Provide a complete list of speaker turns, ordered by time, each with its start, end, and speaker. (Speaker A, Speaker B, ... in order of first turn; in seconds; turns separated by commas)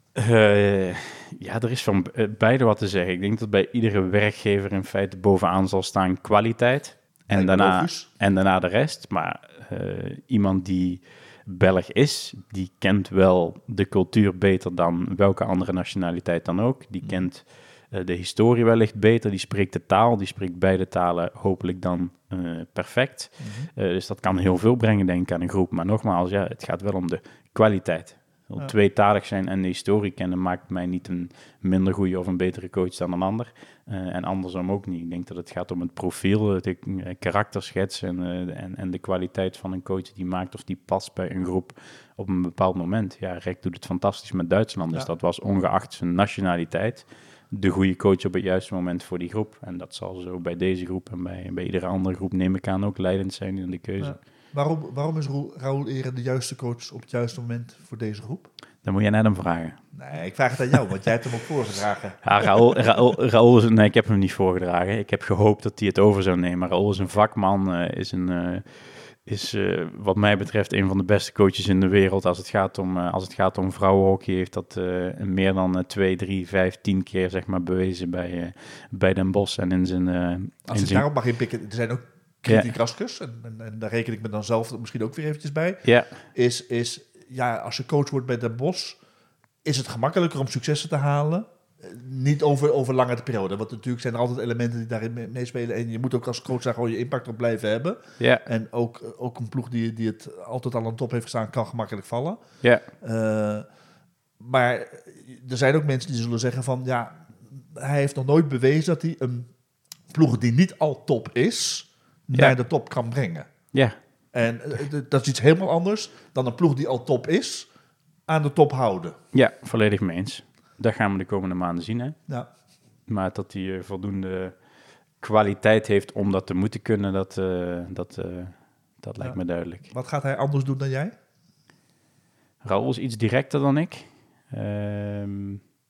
Speaker A: 0.2-54.2, Speaker B: 7.3-8.1, Speaker B: 23.4-23.7, Speaker B: 54.0-58.5, Speaker A: 58.8-59.8, Speaker B: 59.9-62.8, Speaker A: 62.2-68.7, Speaker A: 69.2-81.1, Speaker B: 80.7-89.0, Speaker A: 85.8-86.1, Speaker B: 89.6-102.4, Speaker A: 98.2-98.5, Speaker B: 103.0-103.7, Speaker B: 104.4-109.5, Speaker B: 110.1-113.5, Speaker B: 114.3-117.7, Speaker B: 118.3-119.2, Speaker A: 119.3-122.2, Speaker A: 123.1-124.5, Speaker A: 125.2-129.9, Speaker B: 129.9-131.2, Speaker A: 132.6-135.6